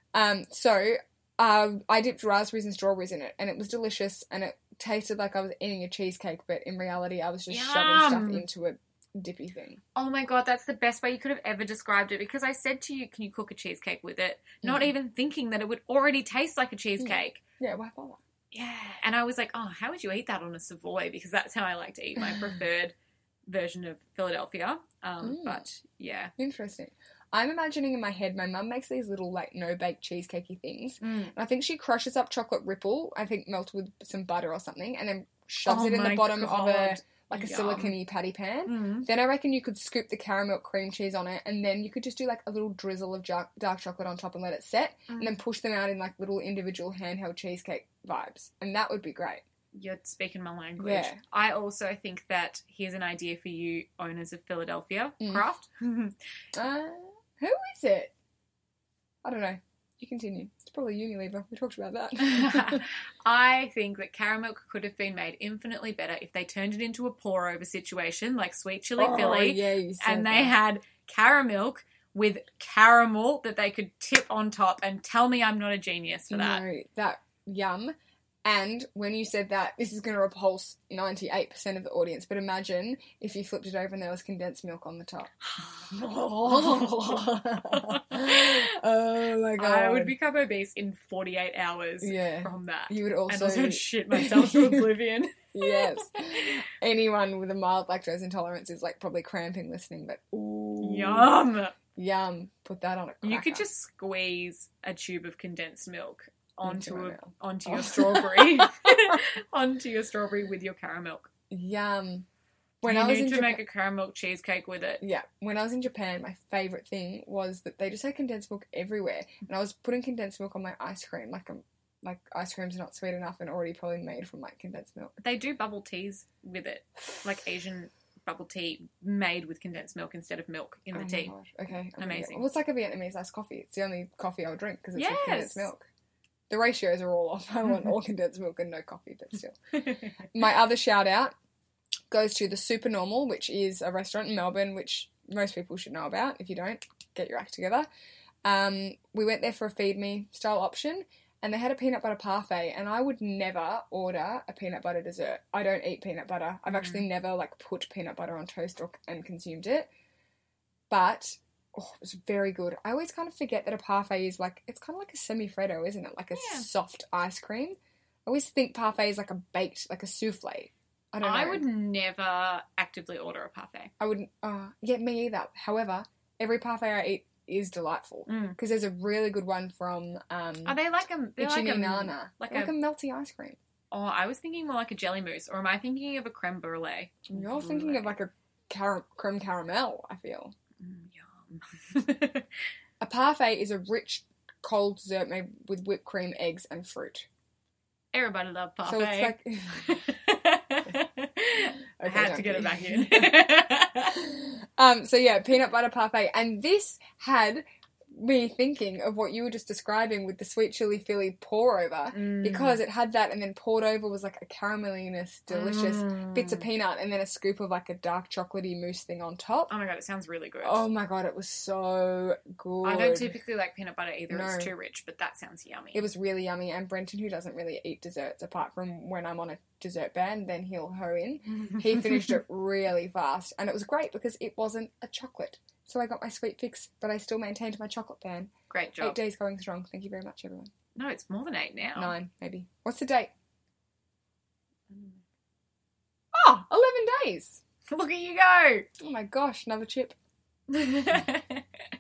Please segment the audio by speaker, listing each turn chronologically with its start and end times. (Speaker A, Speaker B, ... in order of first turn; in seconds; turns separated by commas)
Speaker A: 0.1-9.8, Speaker B: 7.5-8.5, Speaker B: 9.9-17.4, Speaker A: 14.6-14.9, Speaker A: 17.0-18.2, Speaker B: 18.5-22.9, Speaker B: 23.5-26.3, Speaker A: 25.2-25.6, Speaker A: 26.4-49.4, Speaker B: 31.0-31.4, Speaker B: 35.7-38.0, Speaker B: 38.7-39.1, Speaker B: 45.1-45.4, Speaker B: 49.7-56.2, Speaker A: 50.8-51.2, Speaker A: 55.2-55.5, Speaker A: 56.5-58.1, Speaker A: 59.2-62.8, Speaker B: 62.2-76.6, Speaker A: 69.0-70.6, Speaker A: 76.3-77.9, Speaker A: 78.5-85.3, Speaker B: 85.5-88.6, Speaker A: 85.9-90.1, Speaker B: 89.6-96.6, Speaker A: 92.0-94.9, Speaker A: 95.5-101.3, Speaker B: 100.8-101.8, Speaker A: 102.0-103.7, Speaker B: 103.2-111.3, Speaker A: 106.6-109.2, Speaker A: 111.5-112.3, Speaker A: 112.8-113.6, Speaker B: 112.8-115.0, Speaker A: 115.0-125.2, Speaker B: 125.2-131.3, Speaker A: 130.9-135.9, Speaker B: 132.0-132.4, Speaker B: 135.0-135.7, Speaker A: 136.5-141.3, Speaker A: 142.1-147.9, Speaker A: 148.4-159.9, Speaker B: 156.7-157.0, Speaker A: 160.9-171.6, Speaker B: 166.3-166.7, Speaker B: 171.2-173.9, Speaker A: 174.0-180.8, Speaker B: 178.3-178.6, Speaker B: 180.7-182.7, Speaker A: 181.4-183.6, Speaker B: 183.9-188.2, Speaker A: 187.3-190.5, Speaker B: 190.8-192.5, Speaker A: 193.0-197.3, Speaker B: 198.1-204.2, Speaker A: 198.9-199.9, Speaker A: 202.0-219.7, Speaker B: 212.1-212.8, Speaker B: 215.5-216.7, Speaker B: 219.7-220.8, Speaker A: 220.6-223.4, Speaker B: 222.8-226.1, Speaker A: 224.3-224.7, Speaker A: 225.9-240.7, Speaker B: 231.6-232.3, Speaker B: 238.7-239.2, Speaker B: 241.0-242.2, Speaker A: 242.0-243.3, Speaker B: 244.9-245.2, Speaker A: 246.3-247.6, Speaker B: 247.9-248.9, Speaker A: 249.0-250.2, Speaker B: 250.7-251.7